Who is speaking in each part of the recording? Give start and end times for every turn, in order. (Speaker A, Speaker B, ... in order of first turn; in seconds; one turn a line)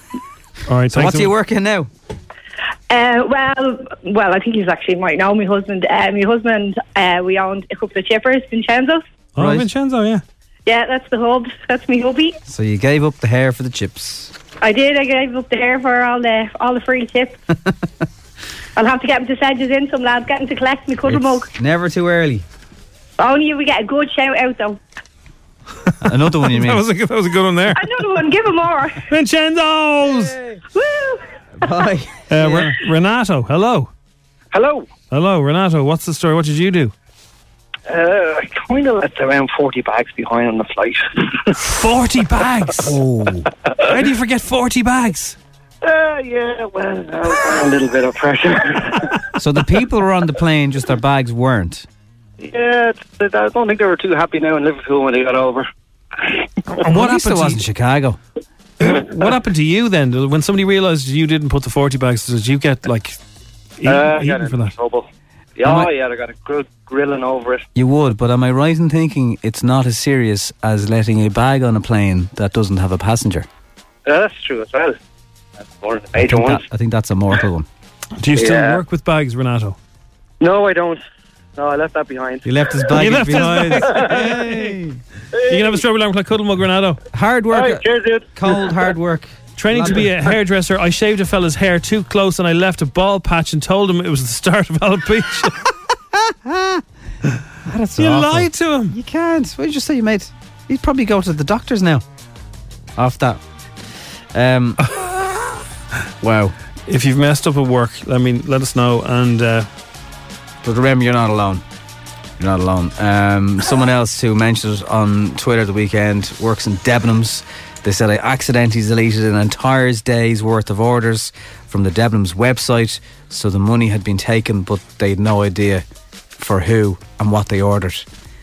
Speaker A: 0.7-1.3
Speaker B: 0.9-1.9
Speaker C: 2.9-9.0
Speaker A: 9.4-10.2
Speaker B: 9.4-9.7
Speaker C: 10.7-12.4
Speaker B: 12.5-14.3
Speaker C: 14.6-17.4
Speaker C: 18.8-21.5
Speaker B: 21.1-22.4
Speaker C: 23.2-24.8
Speaker B: 26.0-26.8
Speaker A: 26.4-27.9
Speaker C: 27.8-29.1
Speaker A: 29.1-30.4
Speaker C: 30.8-31.2
Speaker B: 31.6-32.7
Speaker A: 32.3-33.9
Speaker D: 34.5-34.9
Speaker A: 35.1-36.9
Speaker D: 37.9-41.0
Speaker A: 41.6-43.0
Speaker B: 42.8-43.5
Speaker A: 43.9-45.4
Speaker D: 45.9-48.8
Speaker B: 49.4-51.9
Speaker D: 52.4-55.6
Speaker A: 56.8-57.6
Speaker B: 56.9-58.2
Speaker A: 58.8-63.2
Speaker A: 63.8-64.8
Speaker D: 63.9-65.1
Speaker D: 65.6-67.6
Speaker B: 65.7-65.9
Speaker B: 67.8-73.5
Speaker D: 74.1-75.0
Speaker D: 75.8-76.6
Speaker B: 76.1-77.7
Speaker A: 78.2-79.8
Speaker D: 78.4-78.8
Speaker D: 80.4-81.0
Speaker D: 81.6-82.5
Speaker B: 82.4-85.0
Speaker A: 82.9-84.8
Speaker A: 85.4-87.0
Speaker B: 87.1-90.2
Speaker D: 87.6-88.2
Speaker A: 89.6-95.6
Speaker B: 96.3-96.8
Speaker B: 97.7-102.0
Speaker A: 98.0-98.9
Speaker B: 103.0-103.4
Speaker B: 104.3-104.8
Speaker B: 106.2-106.5
Speaker A: 106.9-109.7
Speaker B: 110.6-111.6
Speaker B: 112.4-125.8
Speaker B: 126.4-128.1